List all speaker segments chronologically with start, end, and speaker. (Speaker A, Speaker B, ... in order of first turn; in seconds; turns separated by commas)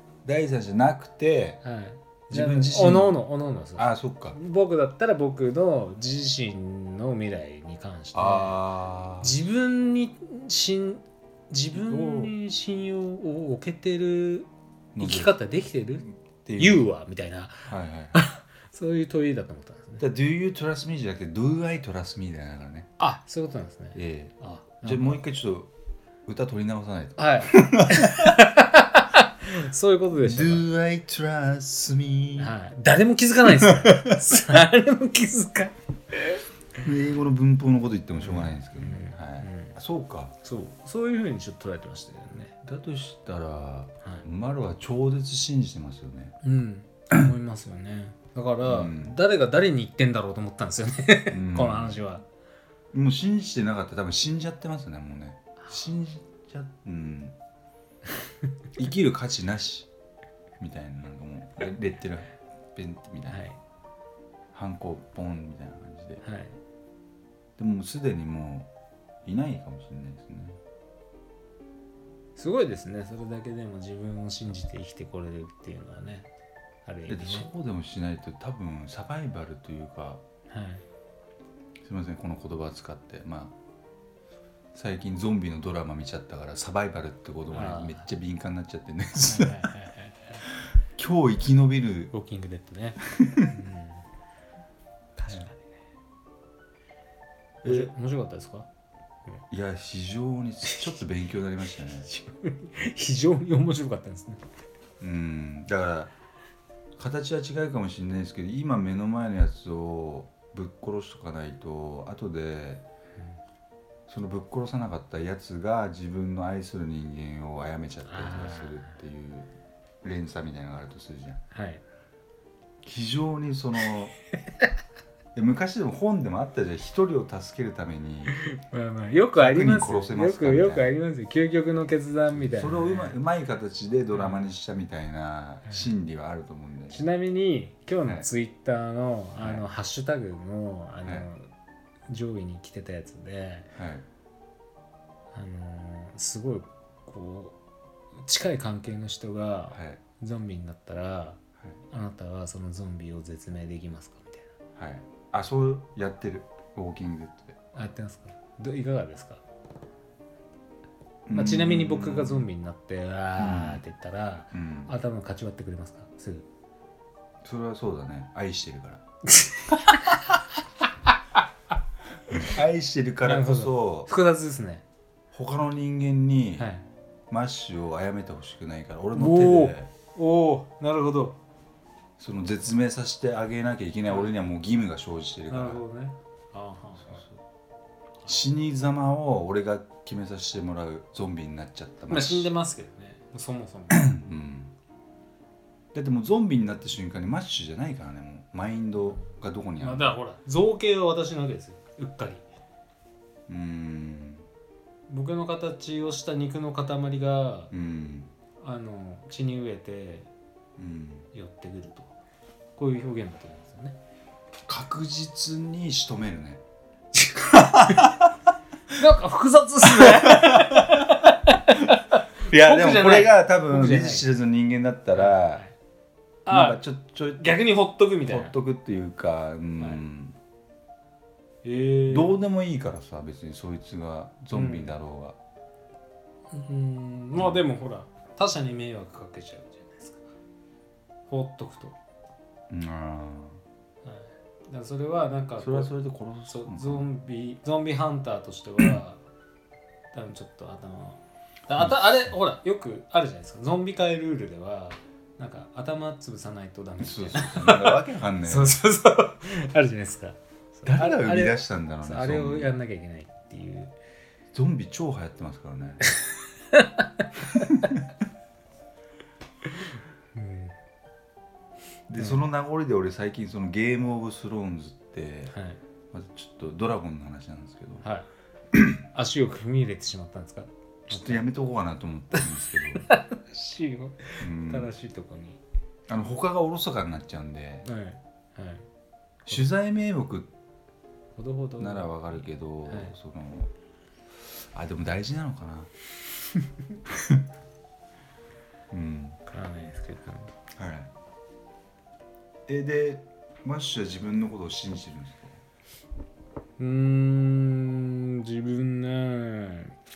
Speaker A: 0.2-1.6, Speaker B: 1.6-8.6, Speaker A: 2.3-3.2, Speaker A: 3.8-4.4, Speaker A: 8.1-9.4, Speaker B: 9.2-16.1, Speaker A: 11.7-12.3, Speaker A: 14.9-15.3, Speaker A: 16.2-16.9, Speaker B: 16.6-20.0, Speaker A: 17.6-18.2, Speaker A: 20.0-22.9, Speaker B: 23.0-25.2, Speaker A: 23.9-25.7, Speaker A: 26.2-28.3, Speaker B: 27.2-30.7, Speaker A: 30.1-32.5, Speaker B: 32.4-36.4, Speaker A: 33.5-34.2, Speaker A: 36.8-40.3, Speaker B: 38.2-39.8, Speaker B: 40.4-42.5, Speaker A: 42.6-46.4, Speaker B: 46.4-52.2, Speaker A: 48.6-49.2, Speaker A: 51.3-52.0, Speaker A: 52.9-57.4, Speaker A: 58.8-59.9, Speaker A: 60.6-63.5, Speaker B: 63.3-63.6, Speaker A: 64.5-66.2, Speaker B: 66.2-66.6, Speaker A: 67.6-68.7, Speaker A: 69.2-70.6, Speaker B: 72.4-76.3, Speaker B: 76.8-77.5, Speaker A: 77.1-80.2, Speaker B: 80.5-80.8, Speaker A: 81.8-83.5, Speaker A: 84.7-89.7, Speaker B: 87.5-88.1, Speaker B: 89.3-90.4, Speaker A: 91.0-92.1, Speaker B: 92.1-94.0, Speaker A: 93.2-93.5, Speaker B: 95.2-95.7, Speaker A: 97.6-97.9, Speaker B: 97.6-98.7, Speaker A: 99.5-102.1, Speaker B: 102.0-104.4, Speaker A: 105.0-106.1, Speaker A: 107.0-112.8, Speaker A: 114.1-119.5, Speaker B: 118.1-119.0, Speaker A: 120.0-121.4, Speaker B: 121.5-121.8, Speaker A: 122.8-124.1, Speaker A: 125.3-128.3, Speaker B: 128.3-133.2, Speaker A: 129.4-130.9, Speaker A: 132.3-137.0, Speaker B: 134.1-134.6, Speaker B: 136.9-141.5, Speaker A: 139.4-139.6, Speaker B: 142.1-143.7, Speaker A: 143.8-144.0, Speaker B: 145.3-147.6, Speaker B: 148.2-154.5, Speaker A: 149.7-150.0, Speaker A: 154.8-157.6, Speaker B: 157.7-159.4, Speaker A: 161.3-162.5, Speaker B: 161.3-166.4, Speaker A: 163.4-163.8, Speaker A: 164.5-164.9, Speaker A: 167.4-169.0, Speaker B: 169.3-170.4, Speaker A: 172.4-174.1, Speaker B: 173.2-174.8, Speaker A: 175.3-176.7, Speaker B: 176.6-176.8, Speaker A: 177.3-179.9, Speaker B: 179.1-181.4, Speaker A: 182.2-185.8, Speaker B: 184.1-184.3, Speaker B: 185.5-187.2, Speaker A: 188.2-192.5, Speaker B: 192.1-194.1, Speaker A: 193.9-194.7, Speaker A: 195.9-200.1, Speaker B: 199.8-202.4, Speaker A: 203.5-204.4, Speaker B: 205.1-207.7, Speaker A: 207.7-208.3, Speaker B: 208.6-210.3, Speaker A: 210.8-211.3, Speaker B: 211.3-212.1, Speaker B: 212.8-214.0, Speaker A: 214.7-216.6, Speaker B: 217.2-218.1, Speaker A: 217.5-218.1, Speaker B: 218.9-224.3, Speaker A: 219.9-221.1, Speaker A: 222.4-225.7, Speaker B: 225.1-225.7, Speaker B: 226.4-226.8, Speaker A: 226.5-227.5, Speaker B: 227.4-228.5, Speaker A: 228.2-230.4, Speaker B: 231.6-232.4, Speaker A: 232.1-235.4, Speaker B: 234.5-234.9, Speaker B: 236.5-240.3, Speaker A: 237.3-237.7, Speaker B: 241.3-241.9, Speaker A: 242.7-243.6, Speaker B: 244.0-245.9, Speaker A: 245.6-247.1, Speaker B: 246.5-249.2, Speaker B: 250.1-263.9, Speaker A: 251.7-252.3, Speaker A: 257.0-258.8, Speaker A: 260.8-262.7, Speaker A: 264.5-266.1, Speaker B: 266.7-267.2, Speaker A: 267.5-268.0, Speaker B: 269.7-270.7, Speaker A: 272.1-275.5, Speaker B: 272.2-272.4, Speaker B: 275.5-275.8, Speaker A: 276.1-278.1, Speaker B: 278.0-278.3, Speaker A: 278.7-279.0, Speaker B: 279.1-281.4, Speaker A: 281.1-283.1, Speaker B: 282.9-285.6, Speaker A: 284.4-284.9, Speaker A: 286.1-287.9, Speaker B: 287.8-288.8, Speaker A: 289.5-290.5, Speaker B: 291.4-293.1, Speaker A: 291.8-293.7, Speaker A: 294.5-295.9, Speaker A: 298.9-299.4, Speaker B: 299.5-300.5, Speaker A: 300.8-301.1, Speaker A: 302.7-305.6, Speaker B: 306.8-309.9